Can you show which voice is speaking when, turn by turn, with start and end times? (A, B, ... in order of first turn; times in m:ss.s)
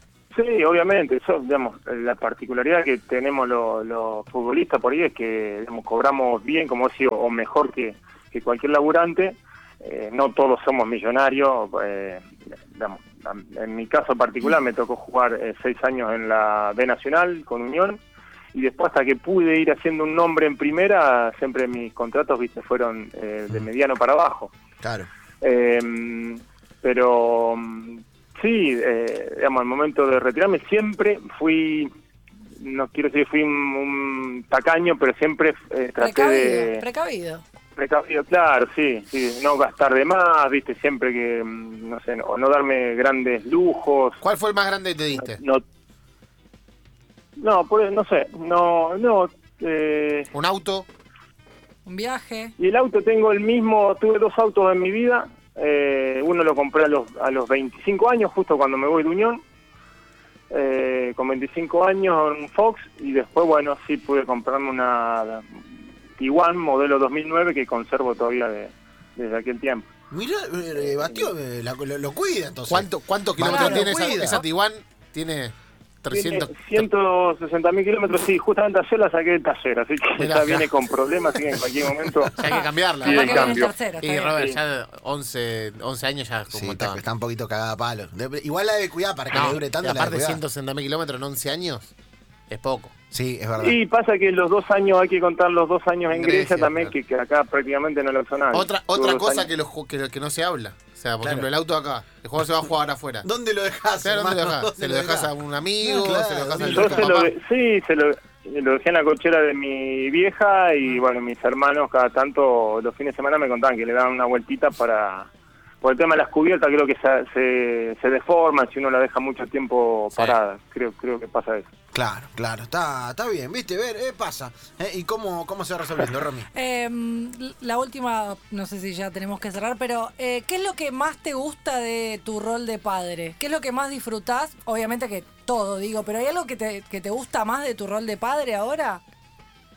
0:00.3-0:18.0 A
0:18.5-0:24.5 A
0:24.8-0:25.1 B
0:25.4-0:31.9 A
0:32.6-0:36.8 A
0:36.0-0:37.4 C
0:37.8-0:44.2 A
0:44.2-0:45.4 D
0:45.2-0:45.6 A
0:47.4-0:50.3 A
0:50.3-0:50.9 D
0:51.9-0:52.5 C
0:52.6-0:59.4 A
1:00.5-1:05.6 A
1:06.2-1:09.9 A
1:10.1-1:14.4 B
1:10.8-1:11.3 A
1:12.7-1:16.9 D
1:13.4-1:14.4 C
1:16.1-1:22.4 A
1:20.2-1:20.7 D
1:22.4-1:27.0 D
1:22.4-1:24.4 C
1:23.0-1:23.8 A
1:24.3-1:24.6 A
1:26.5-1:30.4 B
1:29.3-1:31.9 D
1:32.5-1:32.9 D
1:33.1-1:33.8 B
1:33.6-1:39.5 A
1:36.1-1:36.9 D
1:38.5-1:43.3 D
1:41.2-1:41.5 B
1:43.2-1:47.2 B
1:44.0-1:47.3 D
1:46.6-1:55.3 A
1:55.8-2:01.7 A
2:00.1-2:00.4 D
2:01.9-2:06.5 B
2:06.5-2:19.0 C